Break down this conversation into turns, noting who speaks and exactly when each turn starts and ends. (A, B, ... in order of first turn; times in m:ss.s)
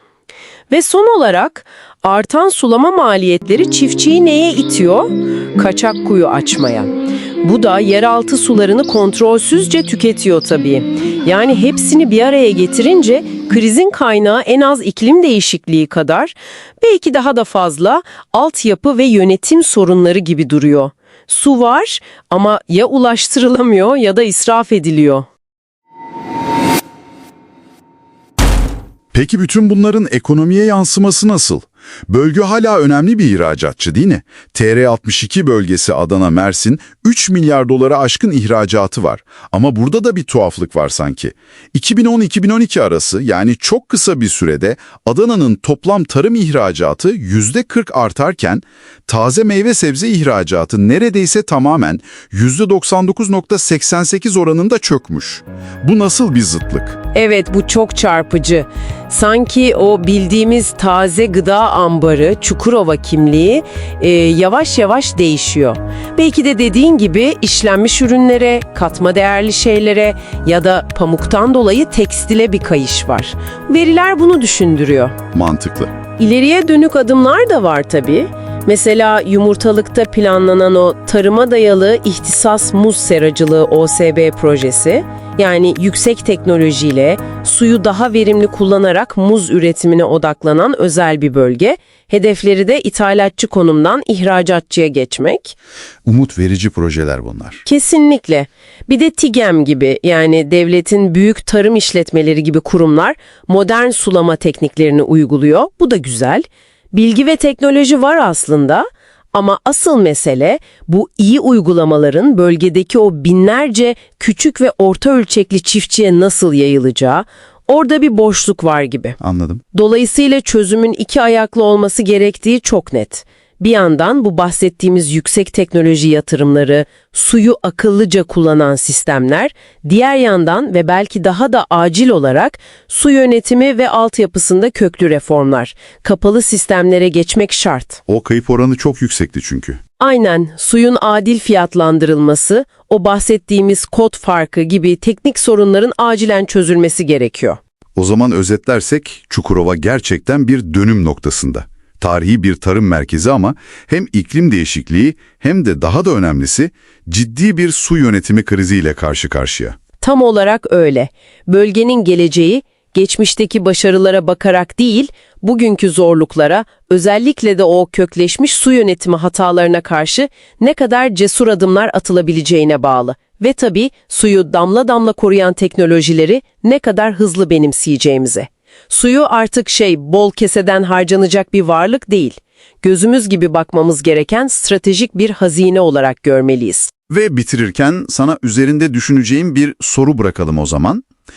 0:00.7-0:25.3 A
0:29.1-0:57.0 B
0:57.1-1:15.2 A
1:15.3-1:15.9 B
1:16.2-1:35.6 A
1:36.1-1:37.6 B
1:37.6-1:59.2 A
1:59.2-1:59.6 B
1:59.7-2:18.0 A
2:18.1-2:19.8 B
2:20.0-2:27.6 A
2:28.0-2:39.8 B
2:40.0-3:06.9 A
3:07.1-3:11.0 B